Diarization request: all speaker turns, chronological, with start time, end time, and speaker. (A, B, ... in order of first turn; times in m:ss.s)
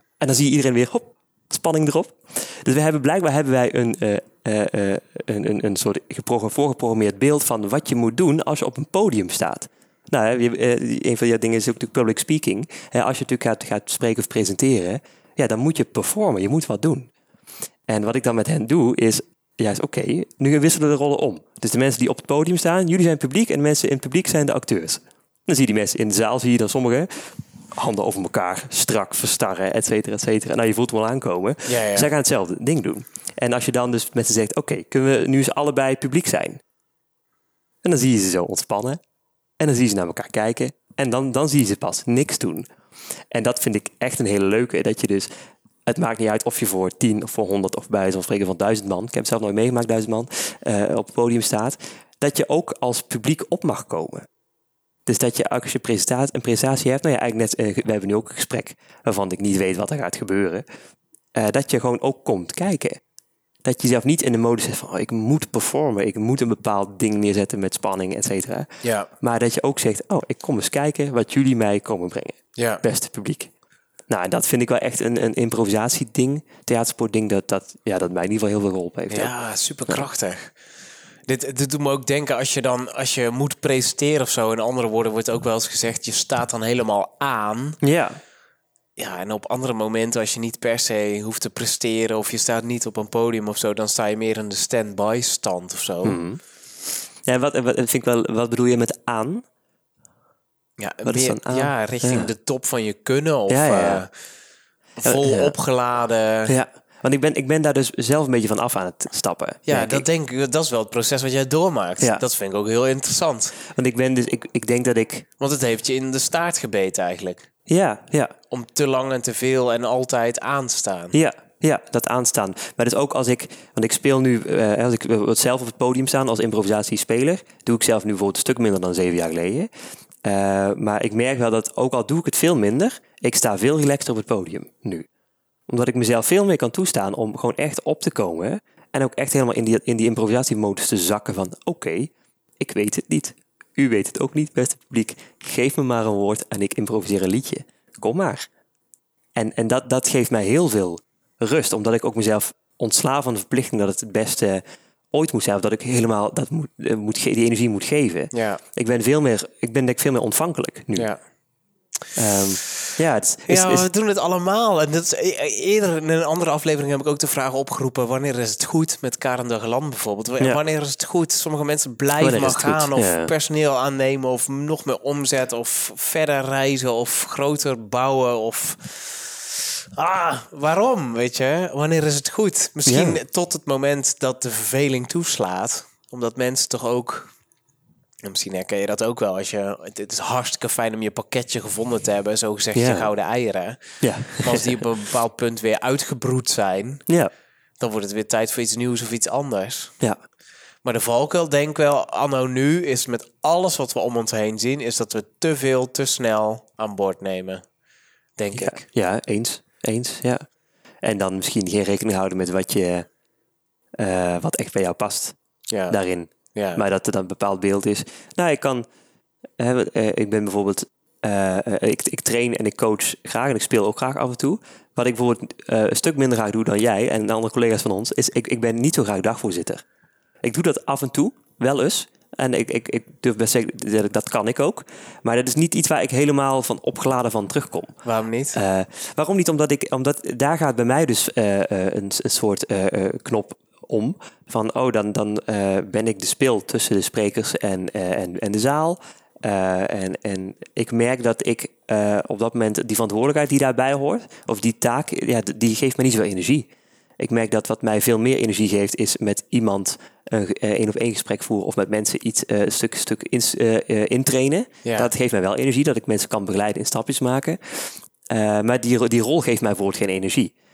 0:00.2-0:17.1 A
0:17.9-0:36.6 A
0:31.7-0:32.1 B
0:37.8-0:39.0 A
0:39.6-0:42.7 A
0:43.3-0:45.3 A
0:45.9-0:54.3 A
0:55.0-1:00.6 A
1:01.3-1:03.0 A
1:03.6-1:08.7 A
1:08.8-1:09.1 B
1:09.2-1:13.5 A
1:12.6-1:12.8 B
1:14.1-1:19.3 A
1:19.1-1:20.5 B
1:21.3-1:27.8 B
1:27.8-1:28.2 A
1:29.0-1:36.2 B
1:36.0-1:36.4 A
1:37.2-1:39.4 A
1:40.8-1:44.1 B
1:41.0-1:42.3 A
1:43.5-1:44.0 A
1:45.0-1:46.6 B
1:45.0-1:45.5 A
1:46.5-1:50.0 A
1:49.7-1:53.6 B
1:53.6-1:55.2 A
1:55.4-1:57.5 B
1:57.7-1:58.3 A
1:58.5-2:01.2 B
2:01.1-2:09.7 A
2:10.2-2:15.0 A
2:15.7-2:28.5 A
2:29.4-2:41.1 A
2:38.3-2:38.6 B
2:42.1-2:43.9 A
2:43.5-3:07.3 B
2:52.2-2:53.3 A
3:02.9-3:03.2 A
3:08.2-3:17.1 B
3:12.8-3:13.1 A
3:14.0-3:14.8 A
3:17.8-3:19.9 B
3:20.8-3:27.6 B
3:28.4-3:28.9 B
3:28.5-3:30.4 A
3:31.0-3:33.1 A
3:34.0-3:35.4 A
3:35.7-3:36.0 B
3:35.9-3:38.9 A
3:36.6-3:36.8 B
3:39.6-3:49.8 A
3:50.4-3:58.0 A
3:58.0-3:58.6 B
3:58.5-4:30.5 A
4:24.8-4:25.1 B